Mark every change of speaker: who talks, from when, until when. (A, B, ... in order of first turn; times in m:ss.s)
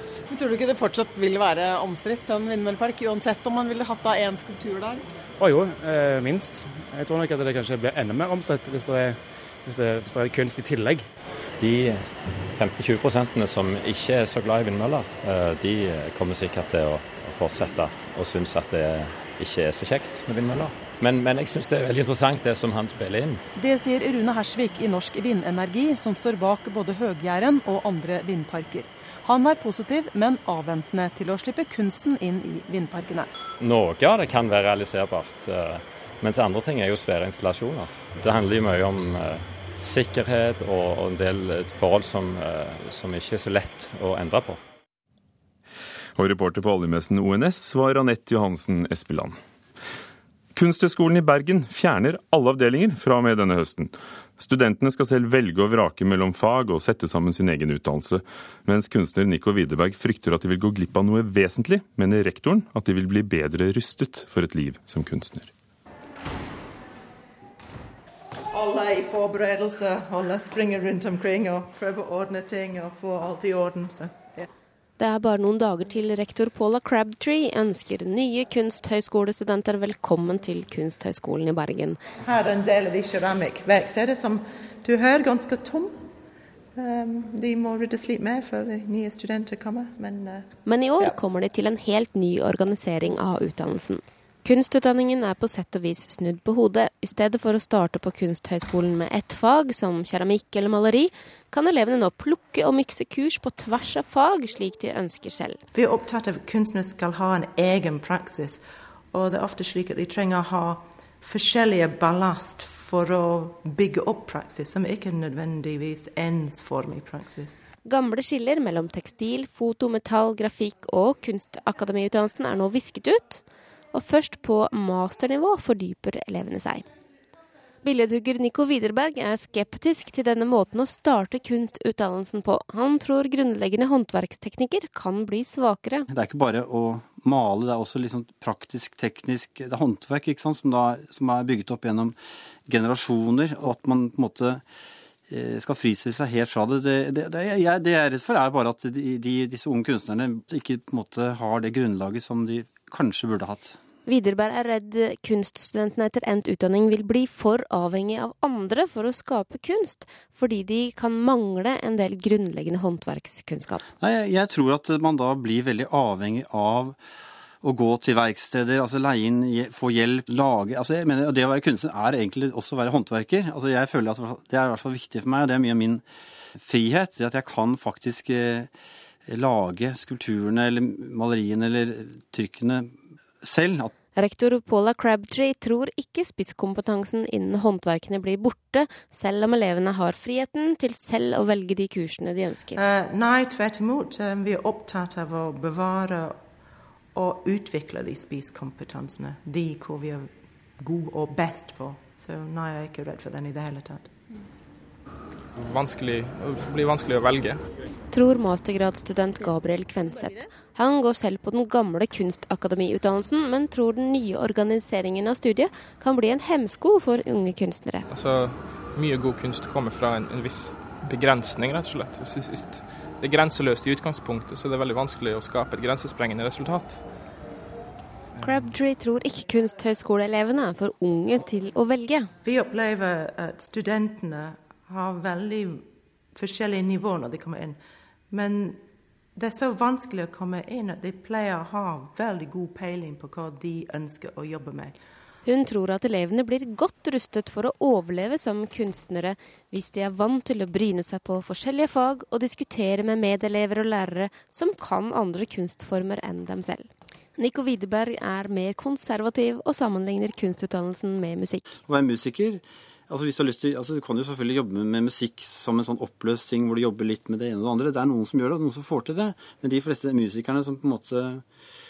0:00.3-0:05.0 A
0:05.4-0:11.1 B
0:11.6-0:23.4 C
0:23.6-0:33.3 D
0:33.6-0:44.6 C
0:46.2-0:49.4 E
0:50.6-1:05.5 E
1:08.5-1:14.5 A
1:15.0-1:22.0 F
1:22.2-1:26.0 A
1:26.8-1:30.5 A
1:30.6-1:45.6 F
1:45.7-1:48.6 A
1:49.1-1:57.6 A
1:57.8-2:03.4 F
2:03.9-2:06.9 F
2:07.8-2:16.1 F
2:16.1-2:22.2 G
2:22.7-2:24.6 G
2:25.3-2:33.8 G
2:34.0-2:43.8 F
2:44.0-2:47.0 G
2:47.6-2:56.0 G
2:56.6-2:58.7 G
2:59.3-3:03.9 G
3:04.2-3:12.8 F
3:12.7-3:16.4 A
3:17.1-3:24.1 A
3:25.6-3:27.6 H
3:28.1-3:38.1 F
3:38.1-3:47.0 H
3:48.4-3:52.3 F
3:52.4-3:57.8 A
3:58.3-3:58.8 A
3:59.4-4:05.0 A
4:05.4-4:21.7 F
4:21.9-4:31.4 G